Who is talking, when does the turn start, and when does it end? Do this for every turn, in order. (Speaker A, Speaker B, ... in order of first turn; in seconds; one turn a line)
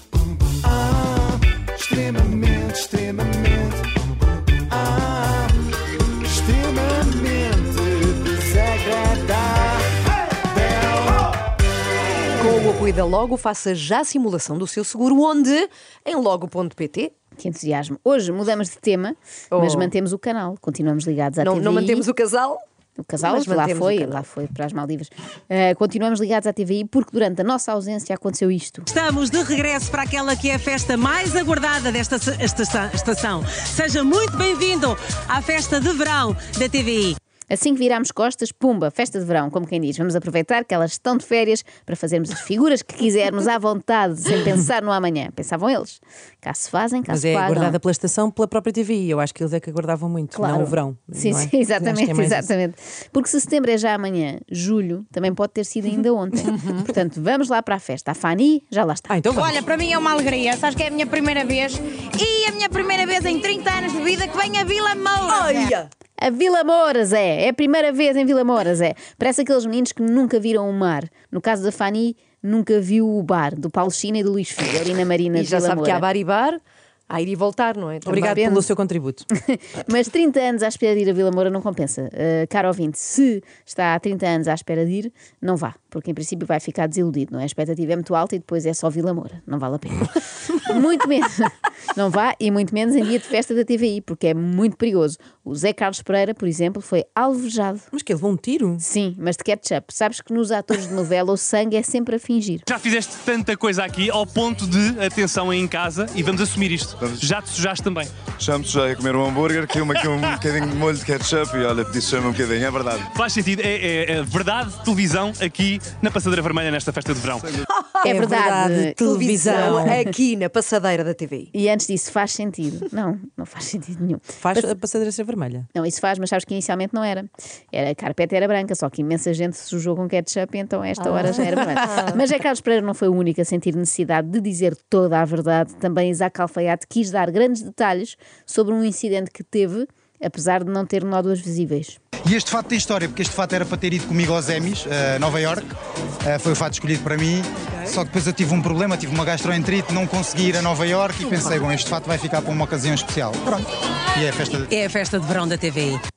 Speaker A: 0.7-3.8
Speaker A: 4.7-5.4
Speaker A: 6.3-9.8
Speaker A: 10.5-10.9
Speaker B: 12.3-17.1
Speaker C: 17.4-22.1
Speaker B: 19.5-19.9
Speaker B: 21.4-22.6
Speaker C: 23.0-28.9
Speaker B: 23.2-24.3
Speaker D: 28.9-37.2
Speaker C: 37.5-47.8
Speaker E: 47.1-52.5
Speaker C: 50.3-59.5
Speaker E: 59.1-59.5
Speaker F: 59.3-65.7
Speaker B: 65.4-65.8
Speaker C: 66.2-76.0
Speaker B: 75.3-78.3
Speaker E: 78.1-79.2
Speaker C: 78.1-78.7
Speaker C: 79.3-97.9
Speaker E: 97.9-98.8
Speaker C: 98.8-102.7
Speaker G: 102.7-108.1
Speaker H: 108.3-113.1
Speaker G: 113.1-117.4
Speaker B: 117.9-121.5
Speaker C: 118.0-120.0
Speaker E: 118.3-120.0
Speaker C: 121.5-124.7
Speaker E: 124.4-125.7
Speaker C: 125.7-142.0
Speaker I: 142.2-145.7
Speaker I: 146.2-154.7
Speaker D: 154.7-156.0